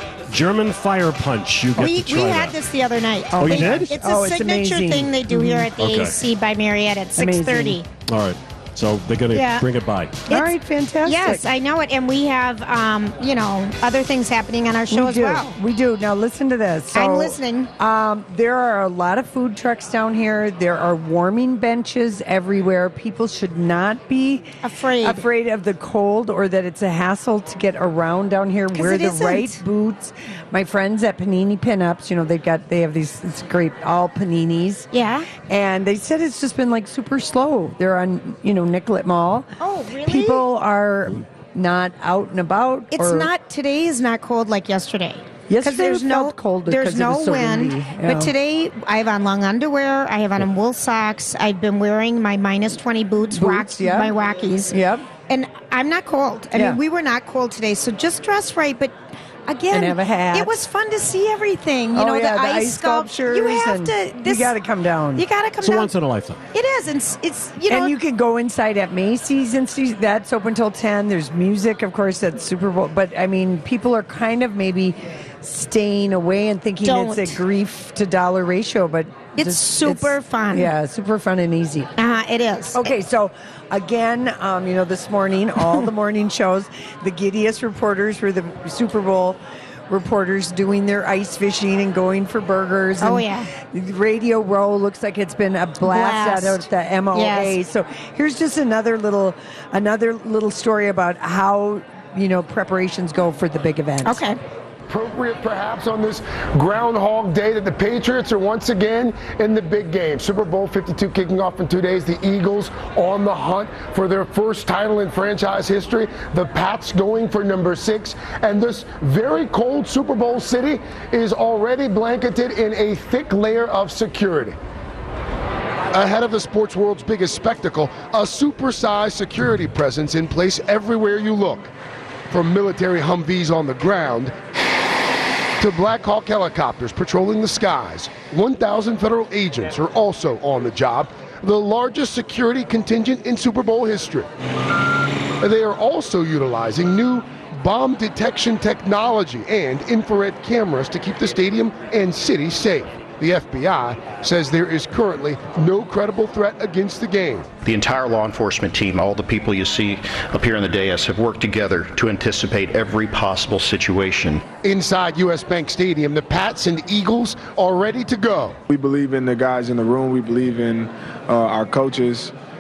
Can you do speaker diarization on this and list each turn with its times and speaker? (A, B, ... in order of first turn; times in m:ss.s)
0:00.3-0:02.5 A
0:01.8-0:07.9 B
0:03.3-0:05.7 C
0:03.4-0:03.9 A
0:05.8-0:06.2 A
0:07.2-0:07.8 C
0:08.1-0:10.2 A
0:09.3-0:09.6 B
0:10.3-0:11.4 C
0:11.0-0:15.6 B
0:14.9-0:34.9 C
0:16.9-0:17.7 B
0:24.6-0:25.2 B
0:28.7-0:29.6 B
0:34.9-0:35.3 B
0:35.5-0:39.5 C
0:39.6-0:40.5 B
0:40.0-0:43.3 C
0:42.9-0:54.8 B
0:45.5-0:48.3 C
0:53.3-0:54.1 C
0:54.7-0:55.0 C
0:55.3-1:04.5 B
0:56.5-0:56.8 C
0:59.7-1:00.6 C
1:01.9-1:05.2 C
1:05.1-1:05.9 B
1:05.6-1:06.4 A
1:06.5-1:07.9 B
1:07.7-1:21.9 C
1:16.8-1:17.4 B
1:19.3-1:20.7 B
1:22.0-1:22.9 B
1:22.7-1:44.2 C
1:33.0-1:33.5 B
1:35.8-1:37.6 B
1:44.0-1:44.4 B
1:44.9-2:04.6 D
2:05.9-2:11.7 D
2:12.3-2:14.3 D
2:15.6-2:24.3 D
2:25.4-2:37.5 D
2:37.6-2:44.4 E
2:44.6-2:48.6 D
2:48.7-2:52.3 F